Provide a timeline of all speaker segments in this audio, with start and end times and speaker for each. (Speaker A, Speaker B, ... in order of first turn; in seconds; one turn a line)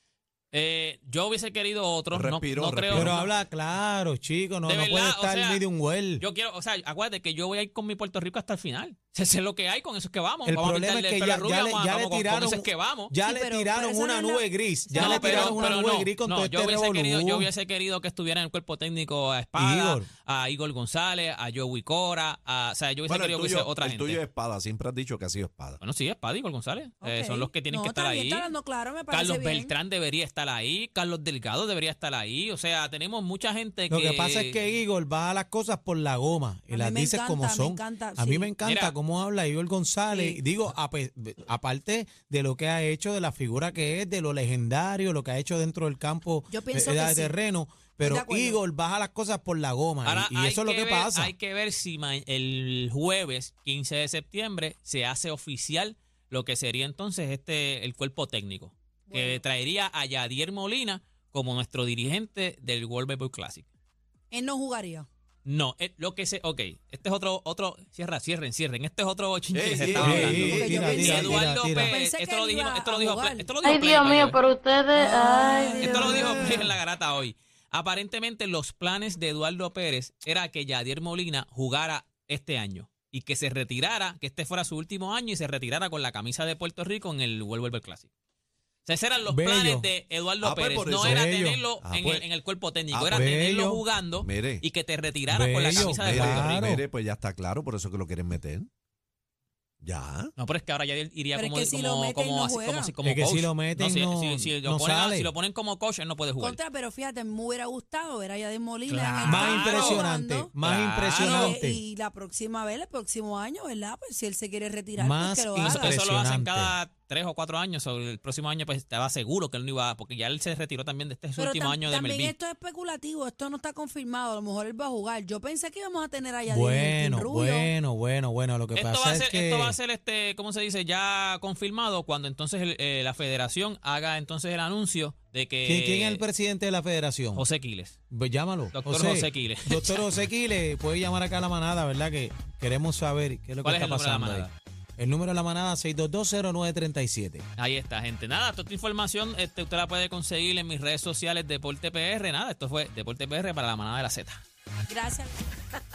Speaker A: 0.5-3.3
Speaker B: 2.1-3.2
Speaker C: 2.9-6.2
Speaker A: 4.7-5.6
Speaker A: 6.2-13.1
Speaker C: 10.4-17.5
Speaker D: 13.2-15.8
Speaker A: 14.9-24.2
Speaker C: 19.6-20.1
Speaker B: 23.1-25.8
Speaker A: 25.8-28.5
Speaker D: 27.0-29.7
Speaker A: 29.1-34.6
Speaker C: 33.9-51.3
Speaker D: 36.7-38.5
Speaker A: 38.6-38.9
Speaker D: 40.1-40.4
Speaker D: 46.5-47.4
Speaker D: 48.0-48.6
Speaker A: 50.0-63.7
Speaker D: 59.1-59.4
Speaker D: 64.3-65.1
Speaker A: 65.4-74.4
Speaker B: 69.5-71.2
Speaker C: 69.9-71.9
Speaker D: 70.4-73.5
Speaker E: 73.6-76.5
Speaker D: 74.9-76.4
Speaker A: 75.7-88.1
Speaker B: 76.1-76.6
Speaker A: 88.8-96.7
Speaker C: 89.3-89.9
Speaker B: 90.4-91.2
Speaker C: 91.0-91.6
Speaker B: 91.8-92.2
Speaker B: 92.9-93.3
Speaker C: 93.1-93.8
Speaker B: 94.2-94.6
Speaker C: 95.3-96.8
Speaker B: 95.7-98.7
Speaker B: 99.8-100.3
Speaker A: 100.4-106.6
Speaker D: 101.3-102.9
Speaker C: 103.0-105.3
Speaker D: 106.4-110.5
Speaker A: 108.9-110.0
Speaker C: 109.2-111.8
Speaker A: 110.6-111.6
Speaker D: 111.2-115.9
Speaker C: 115.0-116.7
Speaker A: 115.6-122.3
Speaker D: 121.4-127.7
Speaker C: 126.5-129.8
Speaker A: 128.7-136.2
Speaker C: 135.6-137.4
Speaker A: 137.3-138.0
Speaker C: 138.1-147.4
Speaker A: 138.7-140.0
Speaker A: 143.6-144.5
Speaker A: 147.6-154.4
Speaker D: 154.9-155.3